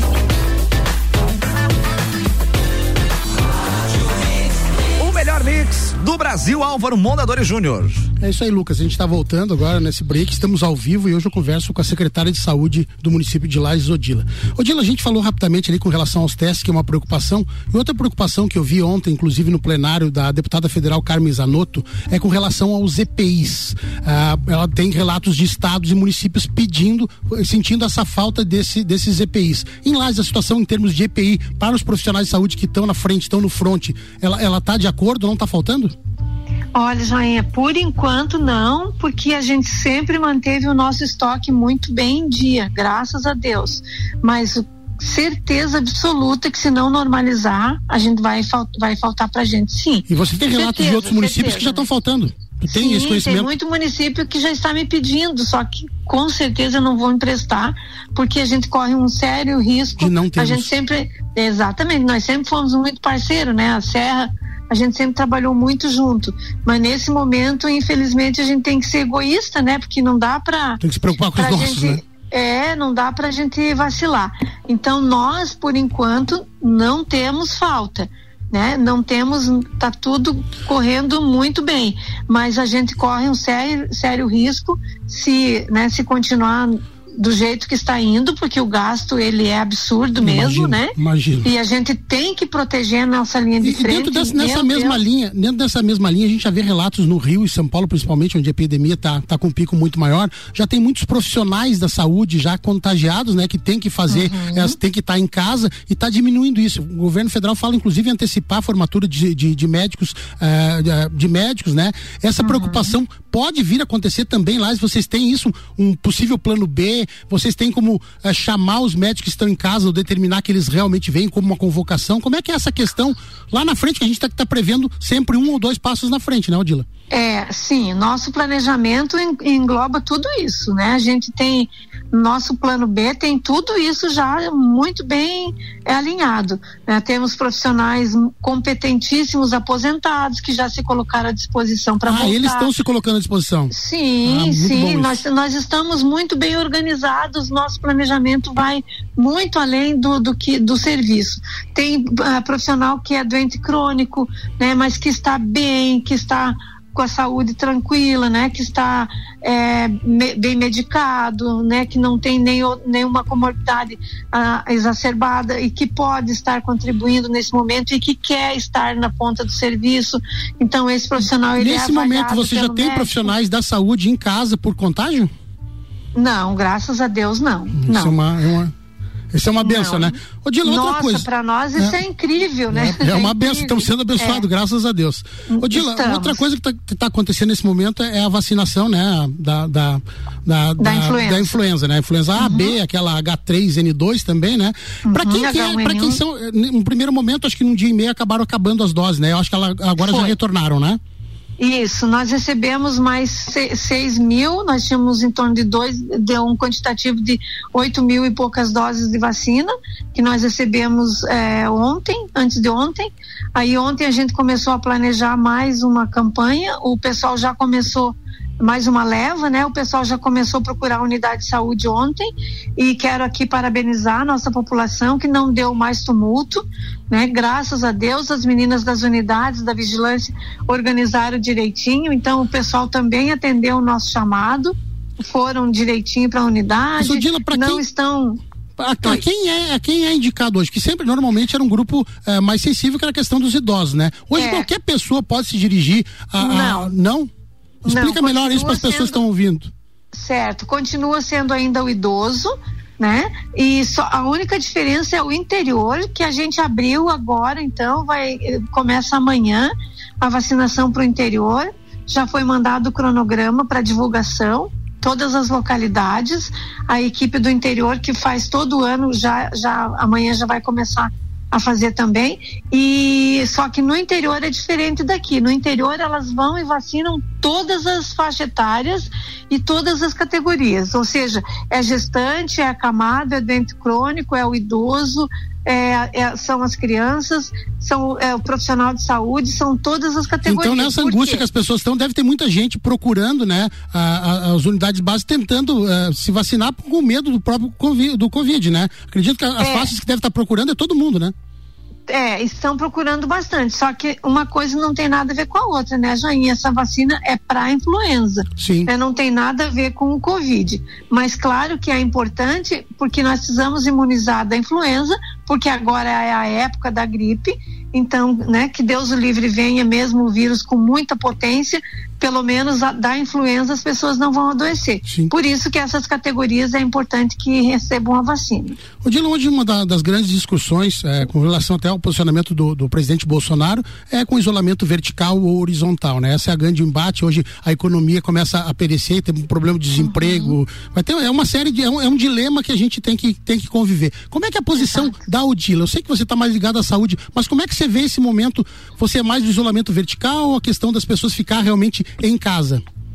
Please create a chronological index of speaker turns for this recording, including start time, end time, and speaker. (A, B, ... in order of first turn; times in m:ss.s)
0:05.0-0:08.0 A
0:08.2-0:35.9 B
0:36.7-0:51.9 C
0:50.1-0:53.5 B
0:52.7-1:10.8 C
1:00.0-1:00.7 B
1:10.8-1:12.0 B
1:11.3-1:35.0 C
1:30.2-1:31.5 B
1:33.6-2:06.9 B
1:44.1-1:44.8 C
1:52.4-1:52.9 C
2:07.1-2:22.7 C
2:22.0-2:23.7 B
2:23.7-2:53.3 C
2:24.2-2:25.2 B
2:51.5-2:55.3 B
2:56.1-2:58.2 C
2:57.8-2:58.7 B
2:59.3-3:02.0 B
2:59.6-3:04.4 C
3:02.7-3:21.0 B
3:05.5-3:06.4 C
3:10.8-3:11.5 C
3:12.4-3:12.8 C
3:15.0-3:16.2 C
3:20.0-3:20.4 C
3:21.6-3:58.4 C
3:57.0-3:57.8 B
3:58.8-4:07.3 B
4:04.3-4:04.7 C
4:06.4-4:06.9 C
4:07.8-4:09.7 B
4:07.8-4:09.2 C
4:10.1-4:51.4 C
4:50.4-5:01.3 B
4:59.6-4:59.9 C
5:02.1-5:28.8 C
5:08.6-5:08.9 B
5:29.0-5:52.8 B
5:40.0-5:40.6 C
5:44.8-5:45.2 C